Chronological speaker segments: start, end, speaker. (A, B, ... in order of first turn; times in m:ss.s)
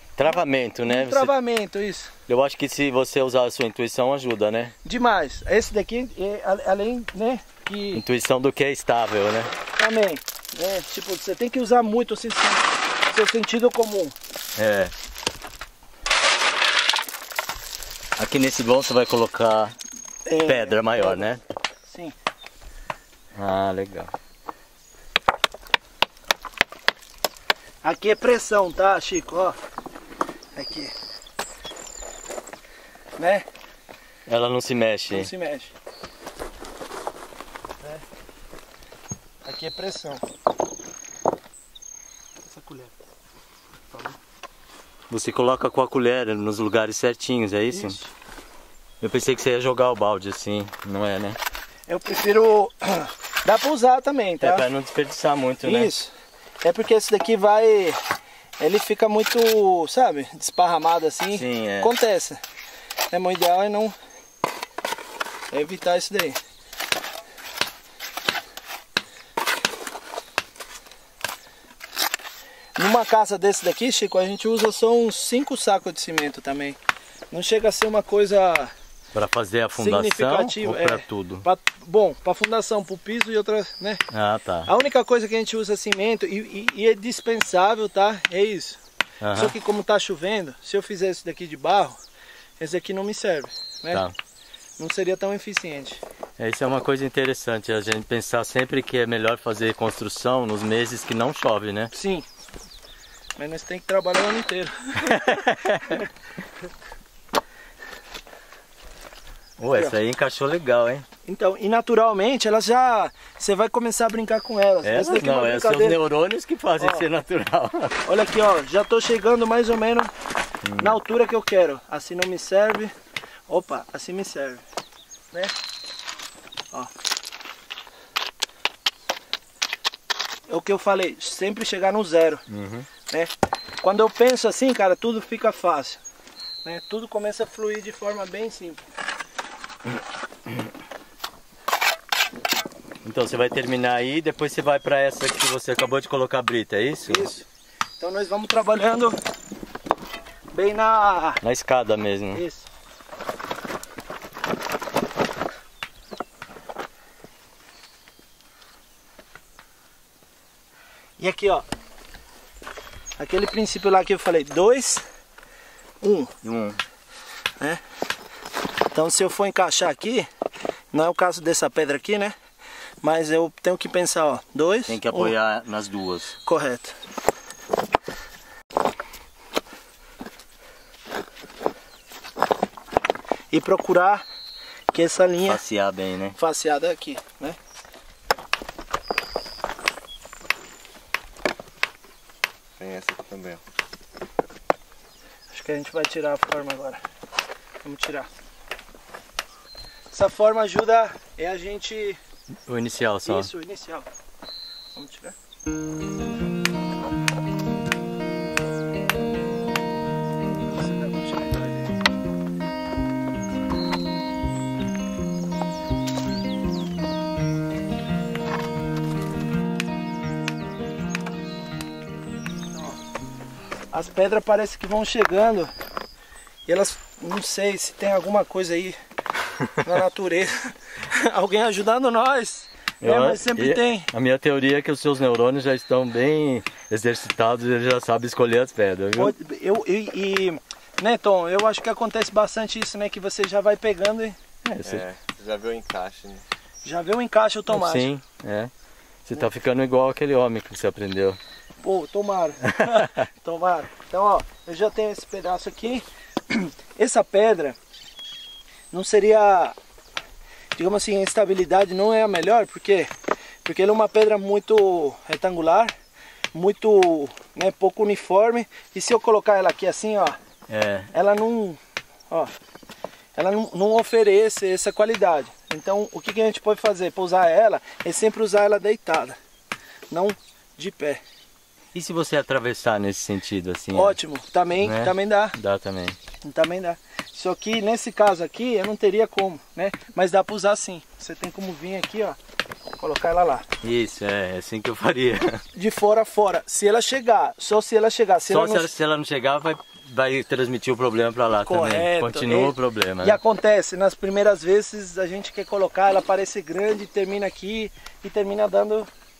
0:00.2-0:01.3 A
0:00.8-0:02.1 B
0:02.3-0:04.7 A
0:04.8-0:08.0 B
0:07.9-0:09.5 A
0:09.8-0:14.1 B
0:14.6-0:14.9 A
0:18.2-0:19.8 A
0:20.2-0:21.3 B
0:20.4-0:21.4 A
0:21.8-0:22.1 B
0:23.3-0:24.1 A
0:27.8-0:29.6 B
0:30.6-0:30.9 B
0:33.2-0:33.4 B
0:34.3-0:35.3 A
0:35.1-0:35.7 B
0:39.4-0:40.2 B
0:42.4-0:42.9 B
0:45.1-0:48.0 A
0:47.7-0:48.1 B
0:49.0-0:51.4 A
0:51.9-0:54.7 B
0:54.4-0:55.9 A
0:55.6-0:58.0 B
0:58.6-1:02.4 B
1:01.3-1:01.9 A
1:03.1-1:03.9 B
1:05.5-1:06.4 B
1:12.8-1:16.8 B
1:17.3-1:18.7 B
1:19.1-1:21.4 A
1:19.8-1:24.0 B
1:24.1-1:24.7 A
1:24.6-1:28.8 B
1:29.2-1:29.5 A
1:29.3-1:32.0 B
1:32.6-1:34.0 B
1:34.8-1:36.0 B
1:36.4-1:41.9 A
1:41.9-1:42.2 B
1:43.4-1:45.3 B
1:45.0-1:46.0 A
1:49.6-1:51.0 A
1:51.2-1:56.0 B
1:54.8-1:58.0 A
1:56.8-1:57.0 B
1:58.0-2:00.1 B
2:00.6-2:00.9 A
2:00.8-2:02.9 B
2:03.5-2:04.6 B
2:10.5-2:12.4 B
2:12.5-2:12.9 A
2:13.1-2:16.0 B
2:16.6-2:18.8 B
2:23.0-2:27.3 A
2:27.0-2:27.4 B
2:28.0-2:29.2 B
2:30.5-2:31.4 B
2:31.4-2:32.4 A
2:32.3-2:32.7 B
2:41.2-2:41.6 B
2:43.2-2:45.0 B
2:46.0-2:46.3 B
2:46.4-2:46.8 A
2:48.9-2:50.3 B
2:50.9-2:52.3 B
2:53.0-2:55.3 B
2:54.9-2:56.4 A
2:56.4-2:56.9 B
3:03.5-3:04.2 B
3:04.9-3:05.6 B
3:05.4-3:06.4 A
3:06.4-3:07.6 B
3:12.8-3:13.6 C
3:15.5-3:17.0 B
3:17.8-3:18.3 B
3:20.1-3:22.2 B
3:22.6-3:23.5 A
3:23.2-3:24.1 B
3:24.9-3:25.3 B
3:30.6-3:31.9 B
3:43.9-3:45.7 B
3:46.7-3:49.0 B
3:49.8-3:54.1 B
3:53.0-3:59.3 A
3:59.2-4:04.4 B
4:04.6-4:05.0 A
4:04.8-4:06.4 C
4:06.8-4:08.1 B
4:07.7-4:08.7 A
4:09.2-4:11.4 A
4:11.8-4:17.8 B
4:12.8-4:13.1 A
4:18.9-4:19.7 B
4:20.8-4:23.1 B
4:23.6-4:25.9 B
4:26.5-4:30.4 B
4:30.7-4:31.1 A
4:31.1-4:32.5 B
4:33.3-4:39.4 B
4:40.1-4:41.2 B
4:41.9-4:44.2 A
4:43.9-4:45.6 B
4:44.8-4:46.2 A
4:46.4-4:52.4 B
4:53.0-4:53.6 B
4:53.8-4:55.6 A
4:55.7-4:58.9 B
4:58.5-5:03.4 A
5:01.6-5:09.1 B